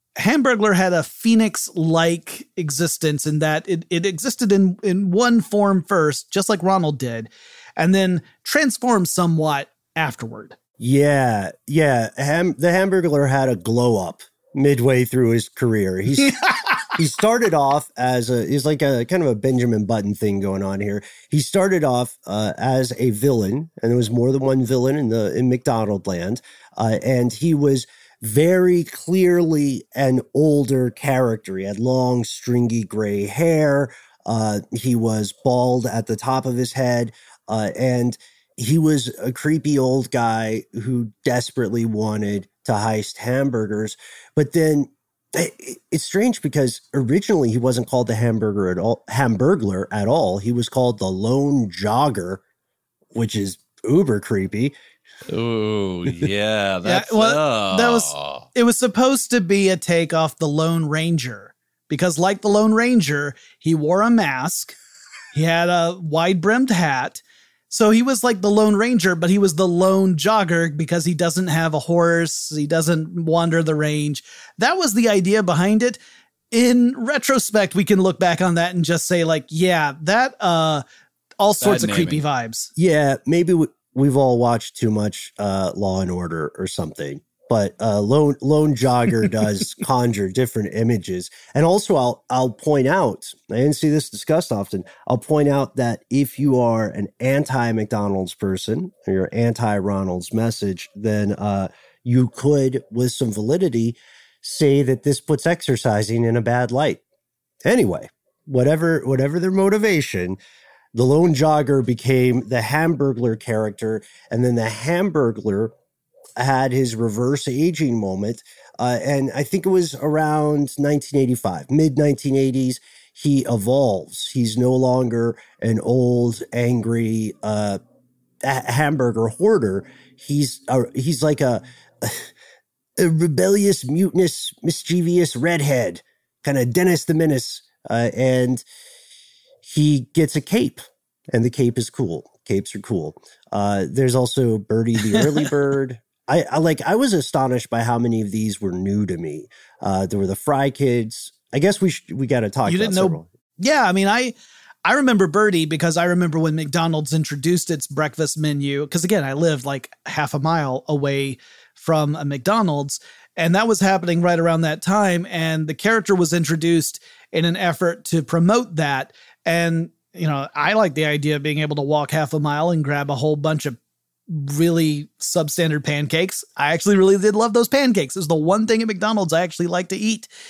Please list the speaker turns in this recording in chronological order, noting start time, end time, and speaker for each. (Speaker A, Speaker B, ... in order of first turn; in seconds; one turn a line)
Speaker A: 0.2-10.6
Speaker B: 10.8-16.4
Speaker A: 16.2-16.7
Speaker B: 16.9-52.4
Speaker B: 53.1-54.7
Speaker C: 55.3-58.5
Speaker A: 56.8-64.7
Speaker A: 65.3-76.0
Speaker A: 76.5-80.8
Speaker A: 81.4-82.7
Speaker C: 81.6-82.2
Speaker B: 82.8-107.0
Speaker B: 107.6-110.4
Speaker B: 110.9-115.7
Speaker B: 116.3-127.8
Speaker B: 128.4-132.3
Speaker B: 133.0-138.6
Speaker B: 139.6-153.3
Speaker A: 145.1-145.4
Speaker A: 152.7-173.8
Speaker A: 174.3-180.3